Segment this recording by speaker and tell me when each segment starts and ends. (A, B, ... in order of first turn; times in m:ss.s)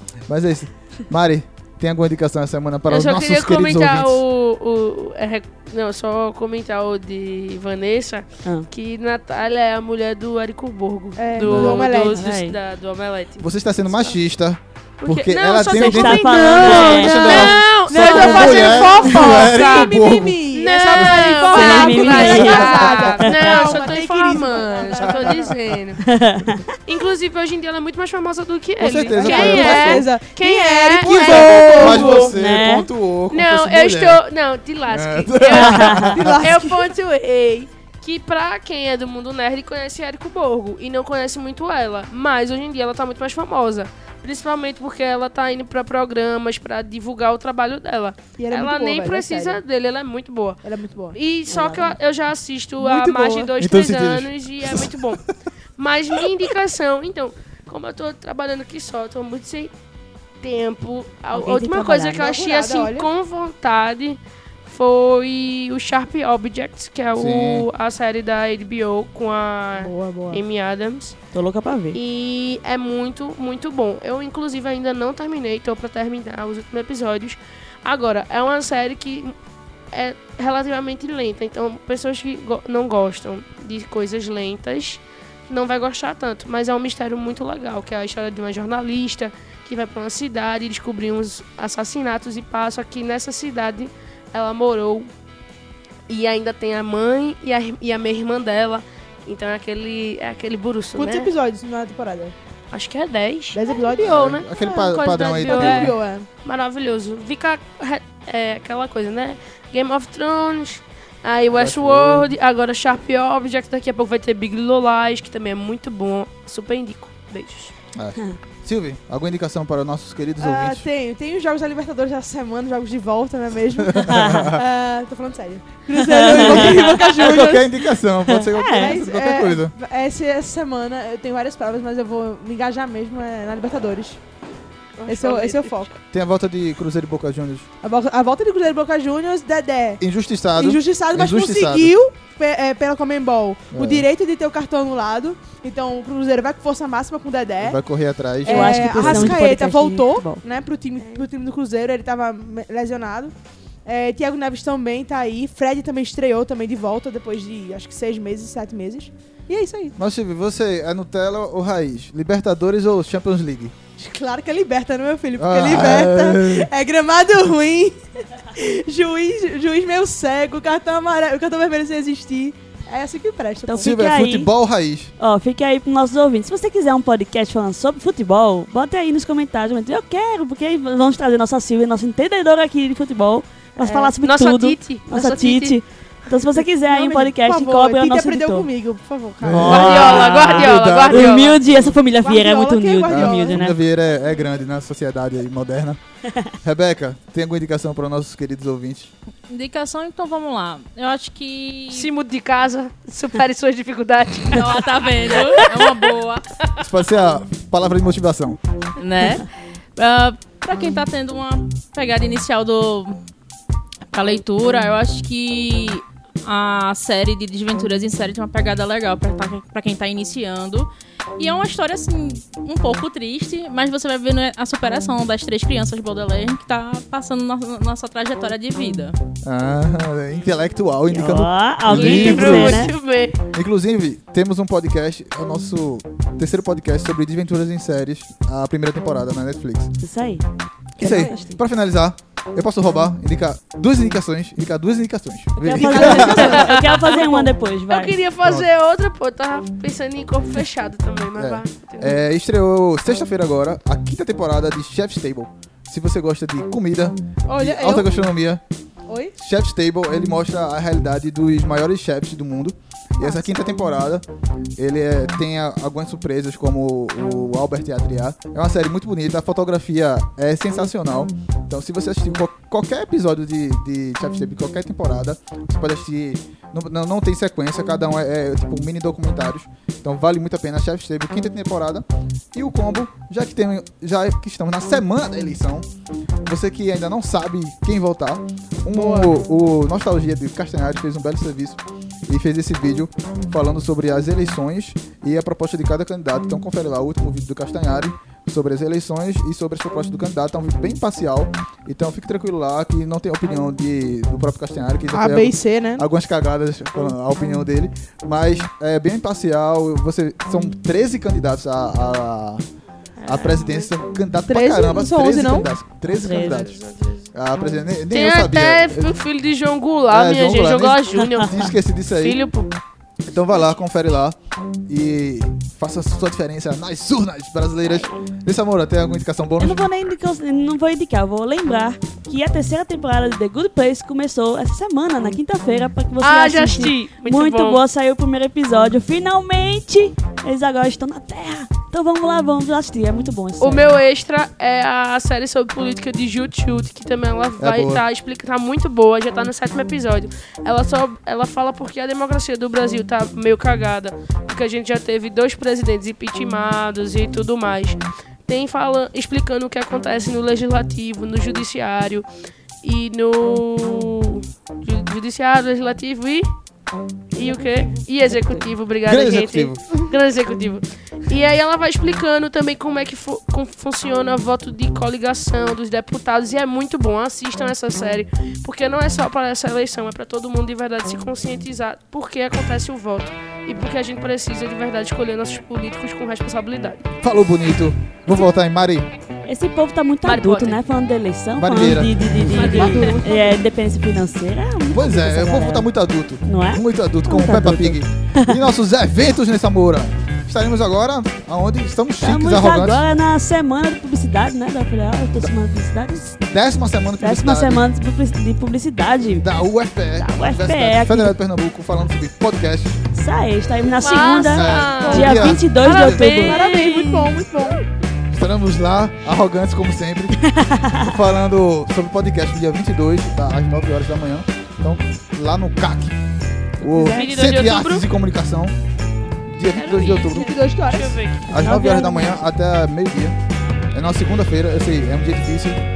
0:00.3-0:04.2 A
0:02.9-0:14.2 B
0:11.2-0:12.2 C
0:11.4-0:11.8 A
0:11.9-0:12.6 D
0:13.4-0:21.4 A
0:15.0-0:20.0 B
0:15.7-0:17.6 D
0:16.2-0:25.5 C
0:20.5-0:26.0 B
0:21.5-0:23.3 D
0:22.1-0:23.9 A
0:25.0-0:25.6 A
0:26.0-0:26.7 D
0:26.8-0:32.3 B
0:28.8-0:30.1 A
0:29.1-0:32.4 C
0:31.1-0:34.2 A
0:32.4-0:32.9 D
0:33.3-0:55.2 B
0:34.9-0:36.5 A
0:35.6-0:36.2 D
0:36.1-0:36.8 C
0:48.4-0:49.6 C
0:50.6-0:51.2 C
0:51.5-0:52.0 D
0:52.8-0:53.5 C
0:53.6-0:55.2 A
0:55.8-0:59.7 B
1:00.4-1:11.2 B
1:01.3-1:02.2 D
1:02.2-1:03.1 C
1:07.2-1:07.7 A
1:09.8-1:10.4 C
1:11.3-1:12.0 D
1:11.9-1:19.4 B
1:19.9-1:35.1 B
1:36.1-1:41.3 B
1:41.0-1:42.4 C
1:42.7-1:57.7 B
1:43.5-1:46.3 C
1:44.0-1:46.0 A
1:51.5-1:52.3 A
1:58.0-2:00.8 A
2:00.4-2:07.7 C
2:03.8-2:04.6 A
2:04.0-2:04.5 D
2:06.0-2:07.0 D
2:06.2-2:09.7 A
2:08.3-2:09.0 D
2:08.7-2:14.2 C
2:15.0-2:16.0 B
2:15.1-2:15.9 C
2:16.1-2:17.7 A
2:17.8-2:20.0 C
2:20.0-2:21.9 A
2:20.6-2:27.8 C
2:23.7-2:24.1 A
2:27.6-2:29.4 A
2:28.4-2:33.3 C
2:28.5-2:30.4 D
2:31.0-2:31.3 B
2:33.8-2:40.0 C
2:40.0-2:43.7 A
2:44.0-2:53.9 C
2:45.4-2:46.7 A
2:53.7-2:54.5 D
2:53.8-2:55.1 A
2:55.2-3:08.7 D
3:03.8-3:04.1 C
3:04.2-3:05.8 B
3:06.8-3:09.9 C
3:09.4-3:11.5 A
3:09.5-3:13.8 D
3:09.7-3:11.6 B
3:11.7-3:13.6 C
3:13.1-3:16.0 A
3:16.6-3:19.1 A
3:19.5-3:22.1 E
3:21.9-3:26.1 B
3:24.5-3:26.4 E
3:26.8-3:28.6 A
3:29.0-3:33.2 E
3:34.1-3:49.2 E
3:49.5-3:52.9 A
3:51.1-3:52.9 D
3:51.9-3:53.4 B
3:53.5-3:59.9 A
4:00.0-4:00.4 D
4:01.0-4:01.6 D
4:01.0-4:06.8 A
4:01.0-4:01.3 B
4:05.6-4:08.2 D
4:05.8-4:12.2 B
4:11.4-4:18.6 A
4:17.5-4:18.1 C
4:19.1-4:19.3 C
4:19.4-4:24.3 A
4:23.2-4:23.5 C
4:24.8-4:45.9 A
4:46.4-5:12.7 A
4:48.9-4:49.3 C
5:05.1-5:06.0 C
5:13.2-5:13.9 B
5:13.3-5:16.8 A
5:14.5-5:15.7 C
5:16.1-5:16.7 D
5:16.2-5:17.3 B
5:17.3-5:19.2 A
5:18.1-5:22.7 B
5:20.1-5:22.4 A
5:21.2-5:21.6 D
5:23.2-5:24.4 A
5:24.9-5:29.8 A
5:29.6-5:43.9 D
5:36.2-5:37.8 B
5:43.6-6:02.3 B
5:47.6-5:48.0 A
6:02.8-6:06.5 B
6:07.3-6:27.0 B
6:07.4-6:08.0 C
6:09.0-6:09.8 A
6:27.2-6:29.1 A
6:29.5-6:35.9 D
6:30.2-6:30.8 B
6:31.6-6:33.0 A
6:32.4-6:33.5 B
6:32.8-6:33.4 C
6:34.9-6:43.0 A
6:36.4-6:38.6 D
6:42.2-6:46.4 D
6:46.3-6:47.9 A
6:47.2-6:49.5 D
6:49.4-6:53.0 A
6:50.2-6:51.4 D
6:53.1-6:56.8 D
6:54.0-6:57.3 B
6:54.5-6:56.2 A
6:55.0-6:55.6 C
6:56.4-6:57.9 C
6:58.3-7:00.4 A
7:00.4-7:01.1 D
7:00.9-7:06.2 A
7:06.8-7:08.8 A
7:06.9-7:07.3 C
7:07.1-7:08.0 B
7:09.5-7:10.5 A
7:09.8-7:11.5 B
7:10.4-7:11.2 C
7:11.5-7:12.5 D
7:11.5-7:13.4 A
7:13.9-7:15.8 A